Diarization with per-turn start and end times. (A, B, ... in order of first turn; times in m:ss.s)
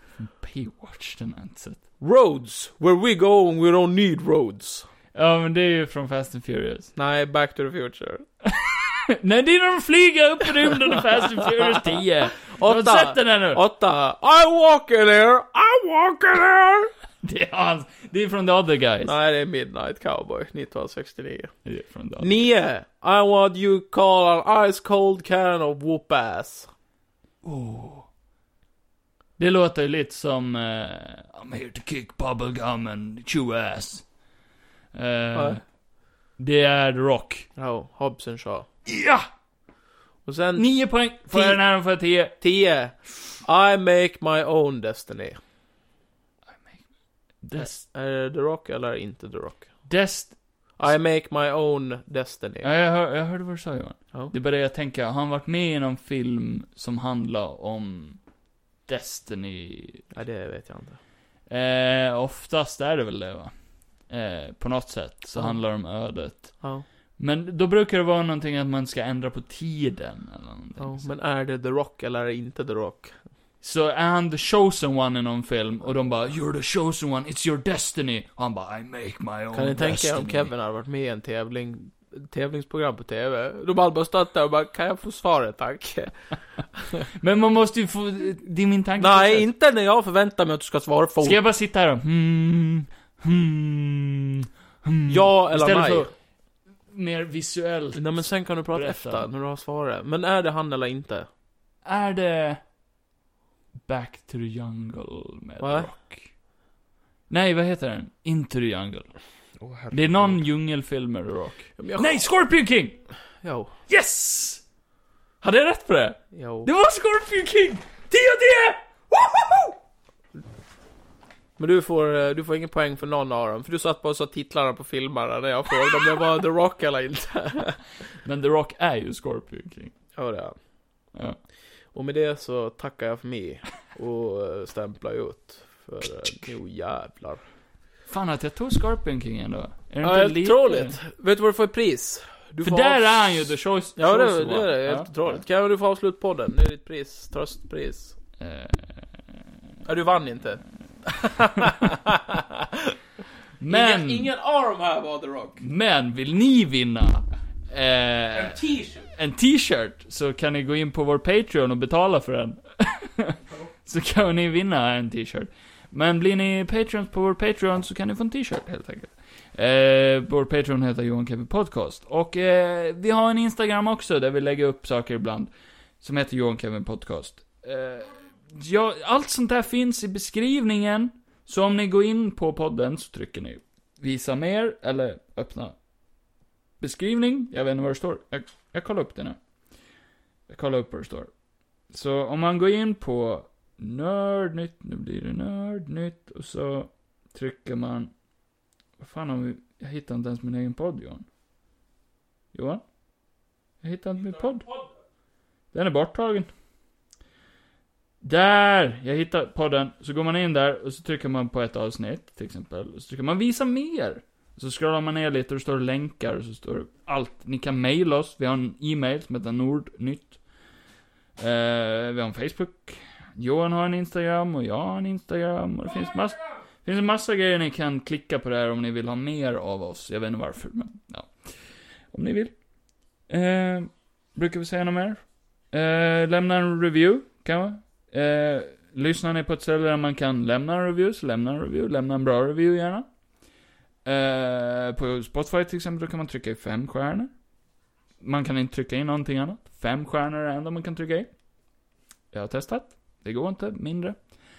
0:00.2-0:01.8 A
0:02.0-0:04.9 B
0:05.1-0:06.9 A
0:07.0-0:08.2 B
0:08.5-0:13.6 A
0:12.4-0:16.9 B
0:17.2-0:19.1 A
0:19.0-0:21.6 B
0:21.6-0:22.5 A
0:22.2-0:26.7 B
0:27.4-0:28.1 A
0:29.4-0:34.1 A
0:34.9-0:35.6 A
0:35.3-0:35.6 B
0:36.4-0:37.5 A
0:37.6-0:38.7 B
0:38.9-0:39.3 A
0:40.3-0:40.7 B
0:40.6-0:42.4 A
0:41.3-0:41.6 B
0:42.3-0:45.4 B
0:46.5-0:46.8 A
0:47.4-0:47.9 A
0:47.6-0:49.9 B
0:49.9-0:50.9 A
0:50.8-0:52.7 B
0:52.6-0:58.2 A
0:58.9-1:00.1 A
1:00.1-1:01.0 B
1:01.5-1:11.1 A
1:05.3-1:05.6 B
1:06.6-1:06.8 B
1:10.8-1:13.2 B
1:13.6-1:20.5 A
1:19.5-1:27.1 B
1:27.1-1:29.5 A
1:29.0-1:31.4 B
1:31.2-1:36.1 A
1:35.1-1:36.1 B
1:36.9-1:39.2 A
1:38.0-1:41.3 B
1:41.8-1:42.6 A
1:43.8-1:46.3 A
1:45.6-1:45.9 B
1:47.3-1:49.1 A
1:49.6-1:50.4 B
1:49.9-1:53.0 A
1:51.8-1:52.2 B
1:53.4-1:53.7 B
1:53.9-1:54.6 A
1:55.4-1:59.8 A
1:56.3-1:56.7 B
2:01.6-2:07.8 B
2:08.2-2:09.9 A
2:10.2-2:10.6 B
2:11.1-2:11.4 A
2:11.9-2:17.4 B
2:18.1-2:21.0 A
2:20.0-2:28.2 B
2:22.6-2:25.4 A
2:28.4-2:29.2 A
2:29.8-2:32.9 B
2:33.6-2:34.3 A
2:33.7-2:35.6 B
2:35.6-3:05.8 A
2:38.6-2:39.0 B
3:06.8-3:09.4 A
3:10.5-3:11.3 A
3:11.9-3:18.1 A
3:19.0-3:21.3 A
3:22.5-3:22.8 A
3:23.8-3:24.7 A
3:25.7-3:26.5 A
3:28.2-3:40.4 A
3:41.4-3:52.6 A
3:53.2-4:03.1 A
4:04.0-4:07.3 A
4:08.2-4:11.3 A
4:12.3-4:14.3 A